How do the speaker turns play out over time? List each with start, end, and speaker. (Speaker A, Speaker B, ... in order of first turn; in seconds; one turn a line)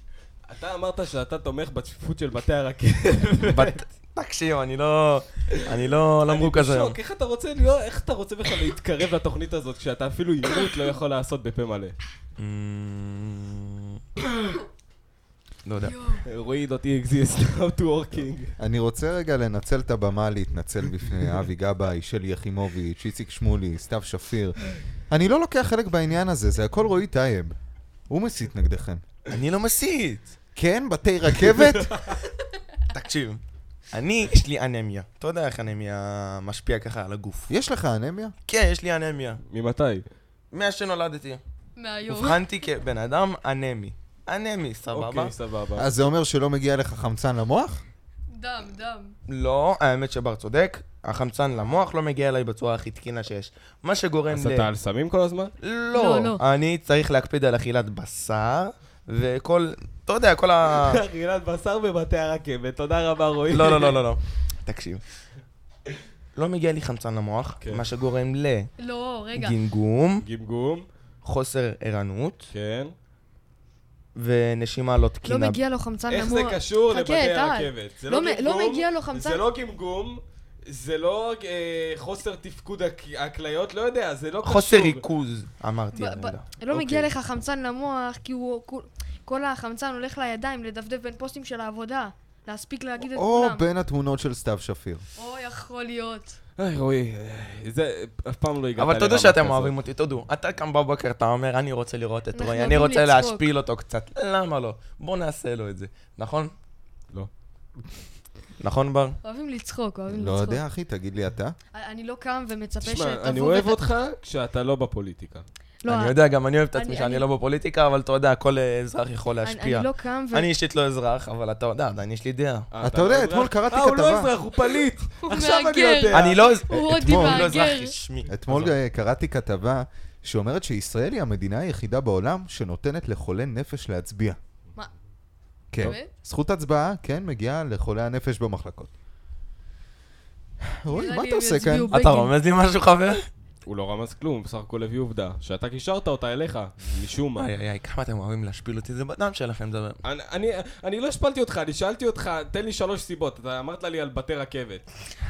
Speaker A: 0.5-3.8
Speaker B: 3.5-7.0
Speaker A: 6.3-12.0
Speaker B: 12.4-14.0
Speaker B: 15.7-16.0
Speaker C: 15.9-16.2
Speaker A: 16.3-18.5
Speaker D: 18.6-27.5
Speaker D: 28.1-29.0
Speaker B: 29.3-30.4
Speaker D: 30.6-31.9
Speaker B: 32.9-37.5
Speaker D: 37.5-38.3
Speaker B: 38.5-39.4
Speaker A: 39.5-40.0
Speaker B: 40.5-41.4
Speaker C: 41.8-42.4
Speaker B: 42.1-45.3
Speaker A: 44.9-45.9
Speaker D: 45.8-47.8
Speaker C: 48.3-49.2
Speaker B: 49.3-54.7
Speaker A: 54.3-55.5
Speaker B: 55.6-61.0
Speaker C: 55.9-56.4
Speaker A: 60.7-64.0
Speaker B: 63.5-65.0
Speaker B: 66.4-68.7
Speaker C: 68.8-69.5
Speaker B: 69.3-70.2
Speaker A: 70.2-70.9
Speaker B: 71.2-72.5
Speaker A: 72.5-72.9
Speaker B: 74.2-75.6
Speaker C: 75.2-79.4
Speaker A: 76.1-85.0
Speaker B: 84.4-86.5
Speaker C: 86.0-93.7
Speaker A: 86.7-87.1
Speaker D: 93.1-95.0
Speaker C: 95.2-96.4
Speaker A: 96.6-99.8
Speaker B: 98.8-106.5
Speaker C: 102.3-103.5
Speaker B: 108.6-109.2
Speaker C: 109.2-110.6
Speaker D: 110.1-111.6
Speaker C: 111.7-113.8
Speaker A: 112.8-115.5
Speaker C: 115.8-116.2
Speaker B: 115.9-122.7
Speaker C: 116.7-117.2
Speaker C: 119.4-120.5
Speaker A: 122.7-126.4
Speaker D: 122.8-124.3
Speaker C: 125.2-128.0
Speaker B: 126.1-128.3
Speaker D: 126.7-127.5
Speaker D: 128.3-134.4
Speaker A: 128.5-128.7
Speaker D: 135.7-138.9
Speaker C: 135.8-136.1
Speaker D: 140.8-141.9
Speaker C: 140.9-142.3
Speaker B: 141.9-143.3
Speaker A: 143.7-147.5
Speaker B: 147.4-150.0
Speaker A: 150.1-154.8